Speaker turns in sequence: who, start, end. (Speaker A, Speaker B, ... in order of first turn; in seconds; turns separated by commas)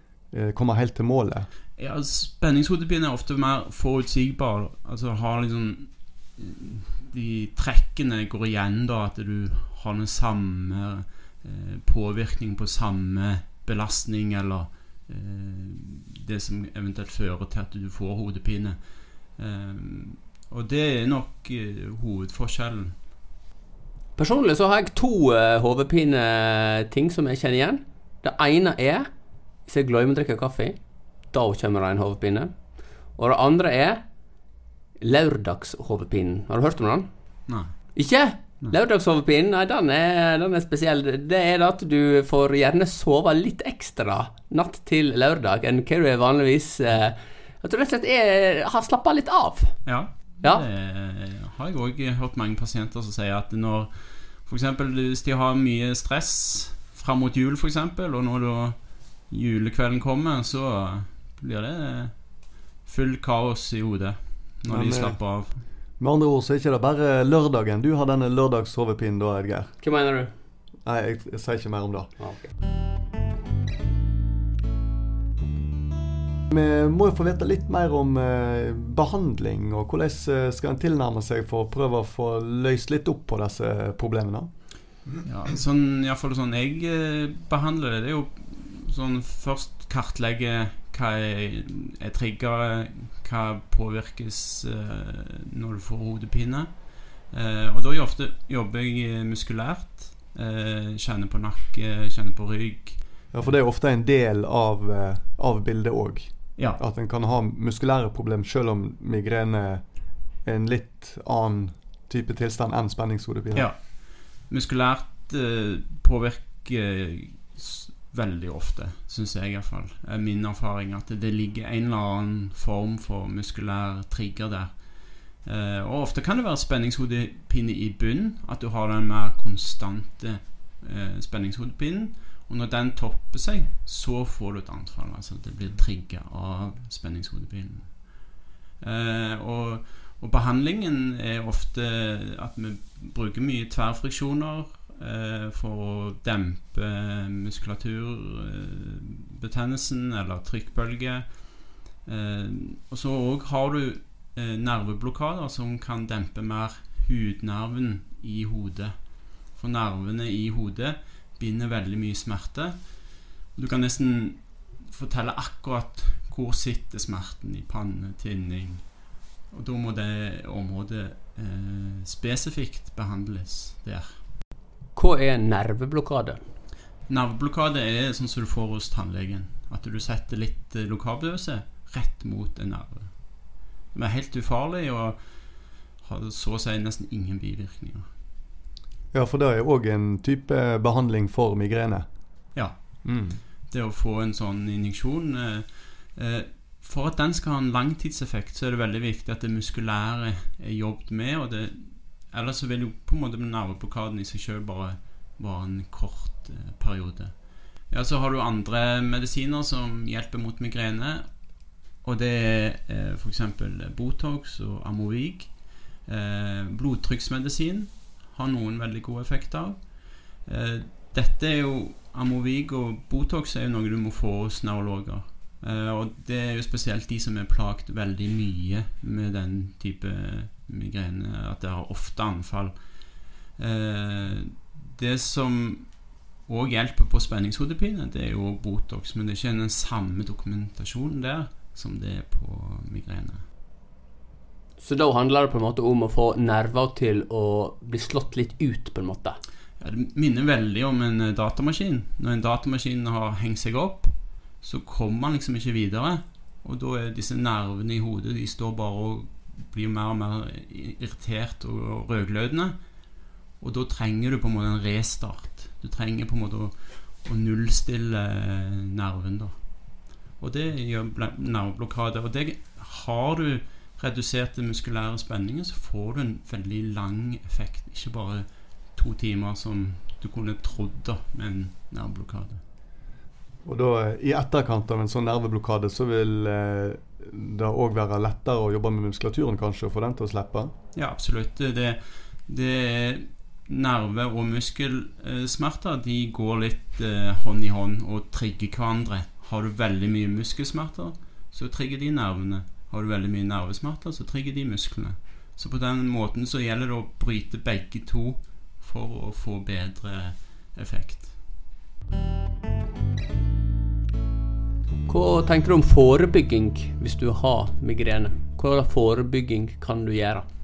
Speaker A: 0.3-1.5, Speaker B: 1.8-23.1, Speaker C: 24.1-29.1, Speaker C: 29.6-30.8, Speaker C: 31.3-32.5, Speaker C: 33.1-34.0, Speaker C: 35.0-37.1, Speaker B: 37.5-37.7, Speaker C: 37.9-49.7, Speaker B: 49.9-65.6, Speaker A: 64.7-65.2, Speaker A: 66.0-69.7, Speaker C: 69.8-70.3, Speaker A: 70.8-72.1, Speaker C: 72.2-72.5, Speaker A: 76.5-84.5, Speaker B: 85.2-103.0, Speaker A: 103.3-109.8, Speaker A: 110.4-113.7, Speaker B: 113.5-174.2, Speaker C: 174.9-176.4, Speaker B: 177.1-188.1, Speaker A: 189.1-192.1, Speaker B: 192.5-243.4, Speaker A: 193.0-193.4, Speaker C: 244.8-249.4, Speaker B: 249.8-262.8, Speaker B: 263.6-269.6, Speaker B: 270.2-282.6, Speaker A: 283.6-290.7, Speaker B: 290.9-311.4, Speaker C: 315.1-320.4